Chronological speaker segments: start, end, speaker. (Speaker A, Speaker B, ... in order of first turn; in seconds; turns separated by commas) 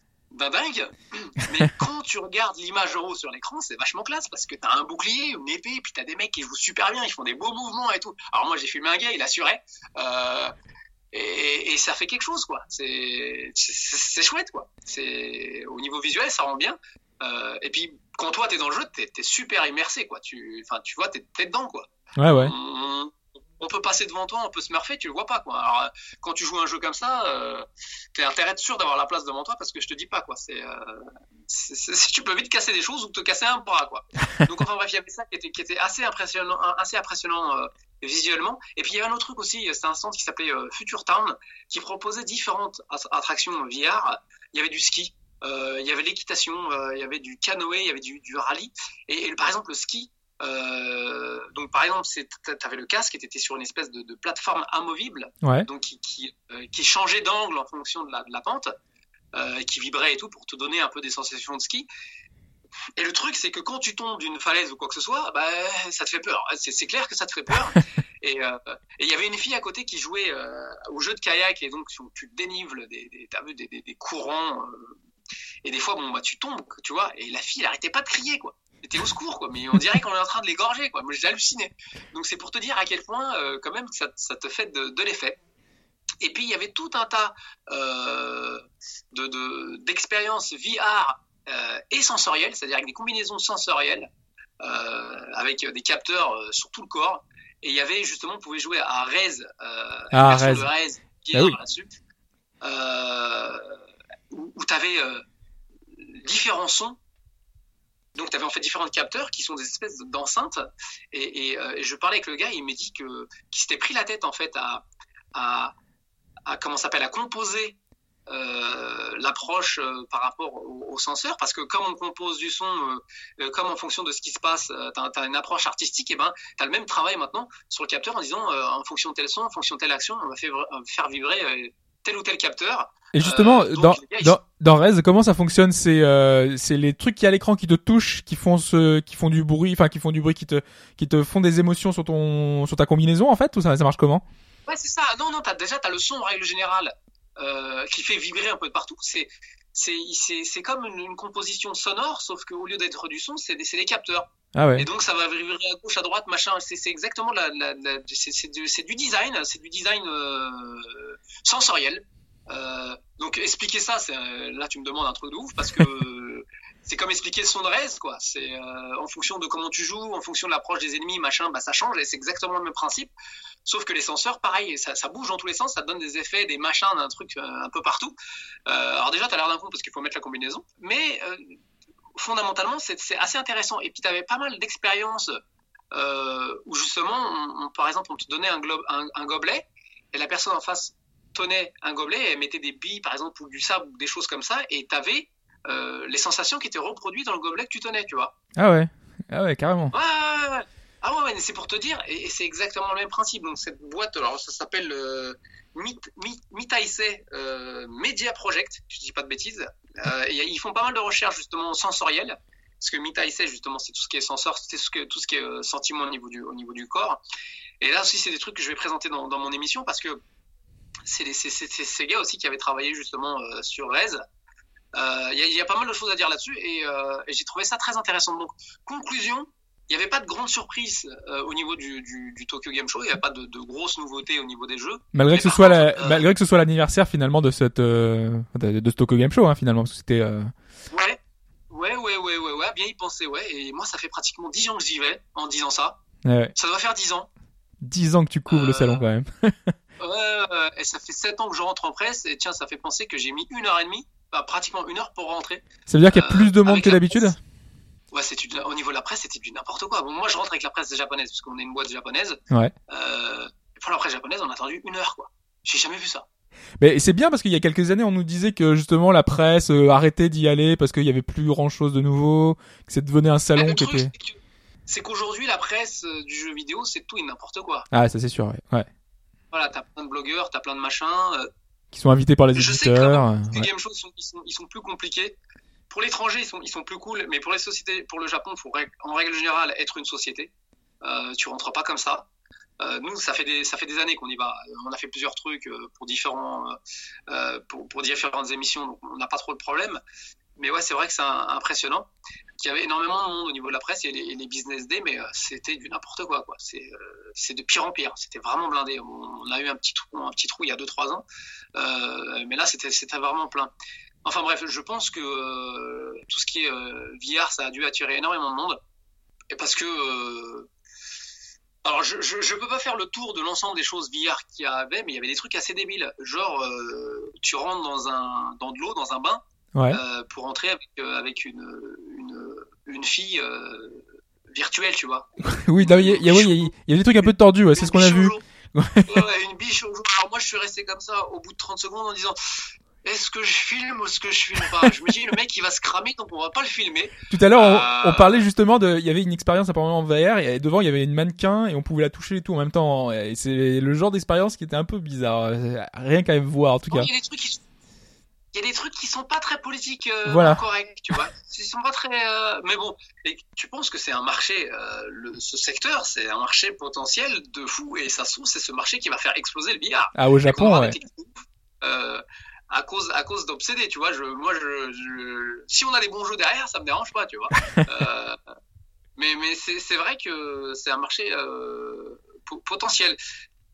Speaker A: 0.3-10.5, Speaker A: 11.1-58.7, Speaker B: 22.2-22.6, Speaker B: 55.4-55.7, Speaker A: 59.3-61.9, Speaker A: 63.0-74.9, Speaker A: 75.6-85.4, Speaker A: 86.2-94.1, Speaker A: 94.6-101.9, Speaker B: 100.1-100.7, Speaker B: 101.3-101.6, Speaker A: 102.6-103.7, Speaker A: 104.3-105.2, Speaker A: 105.9-107.0, Speaker A: 108.2-110.6, Speaker A: 111.1-114.8, Speaker A: 115.3-115.7, Speaker A: 116.5-117.8, Speaker A: 118.3-134.4, Speaker B: 133.1-144.2, Speaker A: 144.7-173.1, Speaker B: 154.6-154.9, Speaker A: 173.7-178.2, Speaker A: 178.7-181.6, Speaker A: 182.2-185.4, Speaker A: 185.9-198.3, Speaker B: 198.6-199.9, Speaker A: 199.9-217.2, Speaker A: 217.8-220.2, Speaker A: 221.1-224.2, Speaker A: 224.9-236.3, Speaker B: 235.1-240.5, Speaker A: 240.9-241.2, Speaker A: 241.7-246.0, Speaker B: 246.2-246.5, Speaker A: 246.6-247.3, Speaker B: 247.8-249.7, Speaker A: 248.5-249.0, Speaker A: 250.0-257.3, Speaker B: 255.9-257.4, Speaker A: 258.1-262.4, Speaker A: 262.9-266.3, Speaker B: 266.8-274.1, Speaker A: 273.6-277.9, Speaker B: 277.9-278.9, Speaker A: 279.5-281.5, Speaker B: 281.9-283.7, Speaker A: 282.6-285.4, Speaker A: 285.9-290.5, Speaker A: 291.0-292.3, Speaker A: 292.8-296.8, Speaker A: 297.3-300.0, Speaker A: 300.6-302.1, Speaker A: 302.6-313.7, Speaker A: 314.2-318.8, Speaker A: 319.5-320.7, Speaker A: 321.8-336.7, Speaker B: 329.8-330.0, Speaker B: 335.4-339.2, Speaker A: 337.2-338.4, Speaker A: 339.1-342.4, Speaker A: 343.0-348.4, Speaker B: 347.3-357.1, Speaker A: 356.9-357.6, Speaker A: 358.5-378.4, Speaker B: 360.3-360.6, Speaker B: 370.2-371.0, Speaker A: 379.2-383.2